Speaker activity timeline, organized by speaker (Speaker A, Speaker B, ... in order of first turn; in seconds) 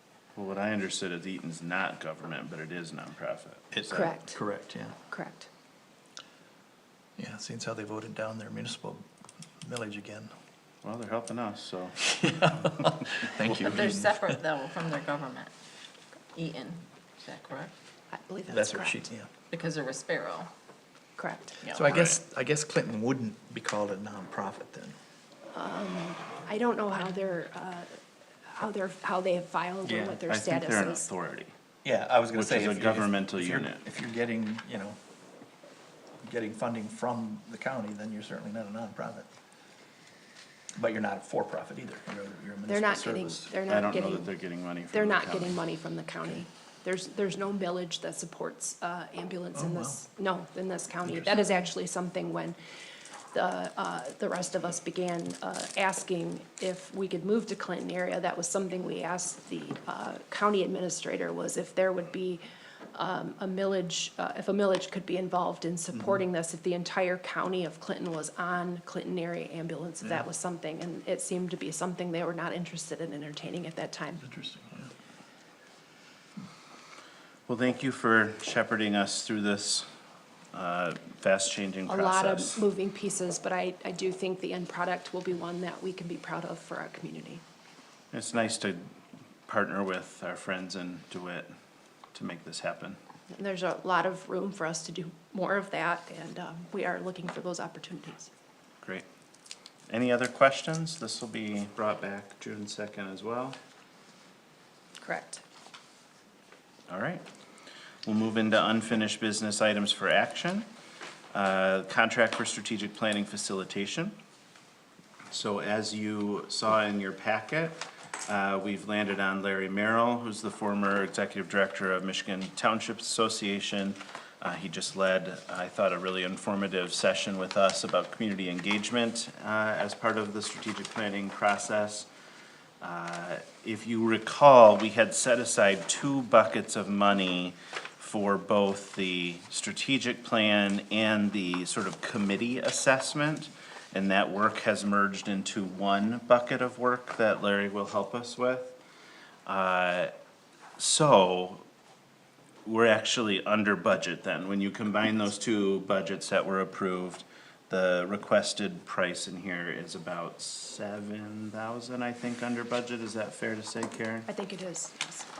Speaker A: 0.3-4.1, 10.8-13.3, 21.9-22.2, 29.9-31.5, 32.3-33.8, 43.7-45.6, 77.5-79.9, 80.5-82.6, 88.1-88.9, 89.5-91.5, 92.1-93.0, 99.9-103.6, 106.9-107.2, 108.0-110.7, 111.3-114.2, 115.3-132.1, 132.8-148.8, 149.4-150.1, 150.8-151.7, 152.6-164.3
Speaker B: 3.7-5.0, 7.2-9.0, 9.6-10.3, 12.2-14.3, 18.5-19.3, 21.6-24.9, 31.8-35.0, 36.2-39.3, 40.8-43.5, 49.5-50.0, 51.0-51.4, 74.2-74.9
Speaker C: 3.9-4.3, 5.1-5.5, 18.1-19.1, 21.2-21.6, 25.5-28.0, 28.5-31.1, 42.7-44.3, 44.9-52.6, 53.3-62.4, 62.9-74.2, 81.9-87.4, 93.3-98.3, 105.0-105.4, 164.3-165.3
Speaker D: 13.4-15.5, 16.3-17.7, 19.5-20.5